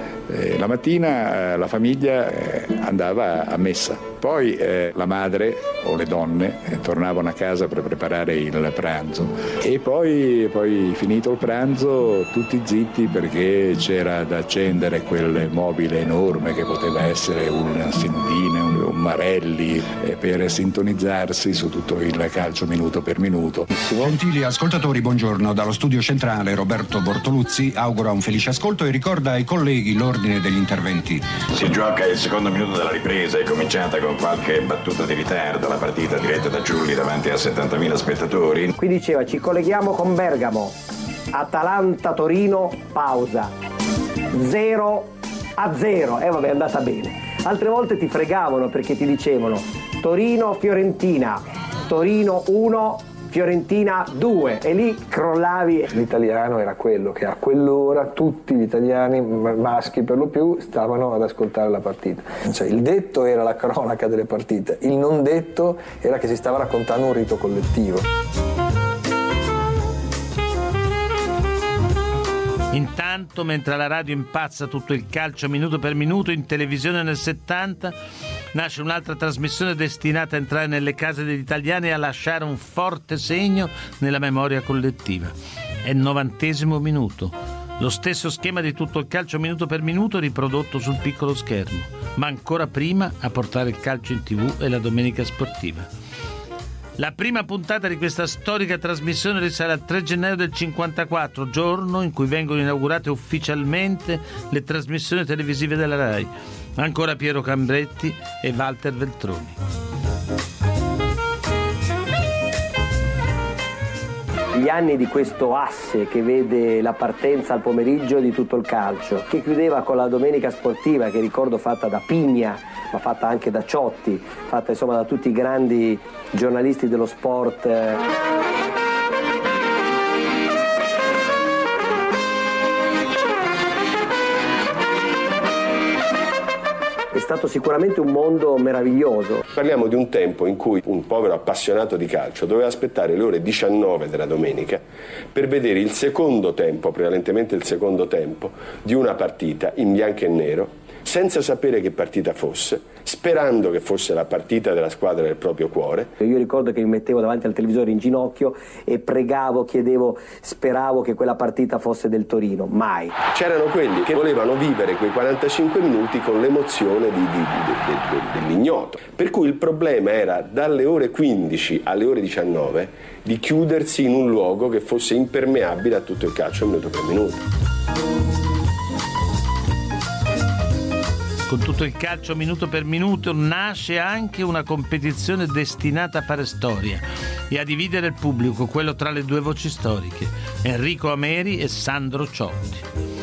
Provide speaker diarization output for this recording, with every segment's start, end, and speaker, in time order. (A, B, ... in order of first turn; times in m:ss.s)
0:00.3-0:23.7 A
0:23.8-0:31.4 B
0:31.5-0:38.7 C
0:38.8-0:40.8 D
0:41.3-0:43.5 D
0:44.3-0:55.9 D
0:55.9-1:08.1 E
1:12.7-1:18.0 F
1:18.5-1:35.9 F
1:37.0-1:49.6 F
1:54.6-2:08.0 D
2:17.1-2:19.4 D
2:19.6-2:24.8 G
2:25.3-2:36.1 G
2:36.2-2:43.2 D
2:43.3-2:57.4 G
3:01.5-3:12.8 F